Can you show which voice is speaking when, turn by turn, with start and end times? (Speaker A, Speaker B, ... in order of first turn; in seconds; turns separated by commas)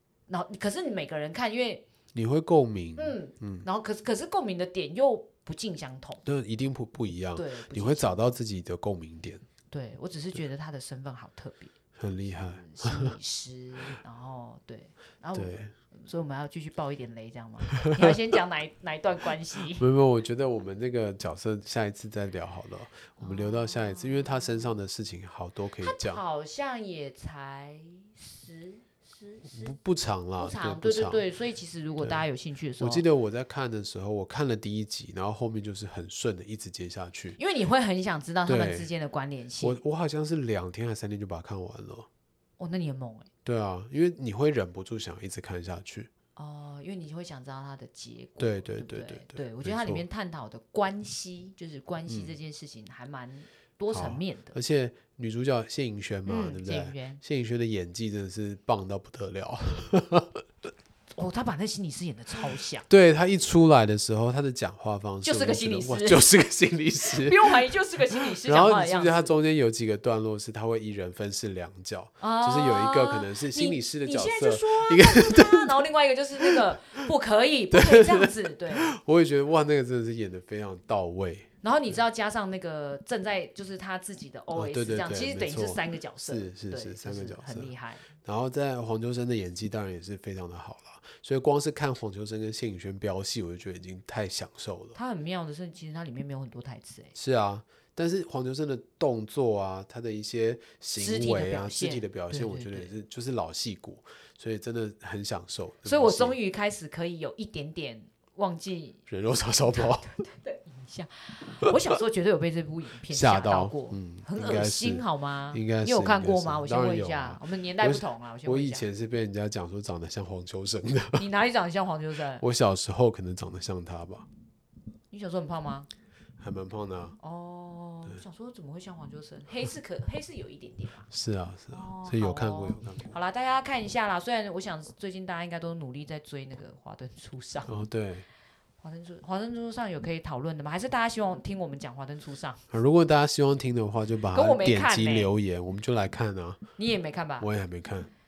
Speaker A: 0.3-1.8, Speaker B: 2.1-3.7, Speaker A: 3.0-6.2, Speaker B: 6.2-9.4, Speaker A: 7.3-8.2, Speaker A: 9.7-11.7, Speaker B: 12.0-13.1, Speaker A: 12.4-19.9, Speaker B: 15.3-15.7, Speaker B: 17.9-18.1, Speaker B: 19.7-26.2, Speaker A: 23.2-24.4, Speaker A: 25.8-29.7, Speaker B: 29.5-31.2, Speaker A: 30.4-33.0, Speaker B: 32.8-37.4, Speaker A: 37.3-39.8, Speaker B: 38.5-38.9, Speaker B: 39.6-42.1, Speaker A: 42.6-43.3, Speaker B: 43.4-46.1, Speaker A: 46.4-54.6, Speaker B: 48.4-50.0, Speaker B: 52.1-52.4, Speaker B: 53.9-60.4, Speaker A: 56.2-57.2, Speaker A: 61.2-62.9, Speaker B: 62.9-67.7, Speaker A: 65.2-66.3, Speaker A: 67.0-69.3, Speaker B: 68.4-75.8, Speaker A: 72.2-79.0, Speaker B: 76.4-76.7, Speaker B: 77.7-82.0, Speaker A: 81.6-88.1, Speaker B: 84.5-87.7, Speaker B: 88.2-95.0, Speaker A: 94.9-97.1, Speaker B: 97.1-106.4, Speaker A: 101.0-102.9, Speaker A: 105.8-109.0, Speaker B: 109.1-110.0, Speaker A: 109.7-118.9, Speaker B: 113.1-121.3, Speaker A: 121.2-122.4, Speaker B: 122.4-124.2, Speaker A: 125.1-125.9, Speaker B: 126.4-127.2, Speaker A: 127.2-131.1, Speaker B: 131.1-133.1, Speaker A: 131.7-137.7, Speaker B: 137.7-138.2, Speaker A: 138.8-142.6, Speaker B: 142.7-146.6, Speaker A: 144.3-145.3, Speaker A: 146.8-147.5, Speaker B: 147.4-148.1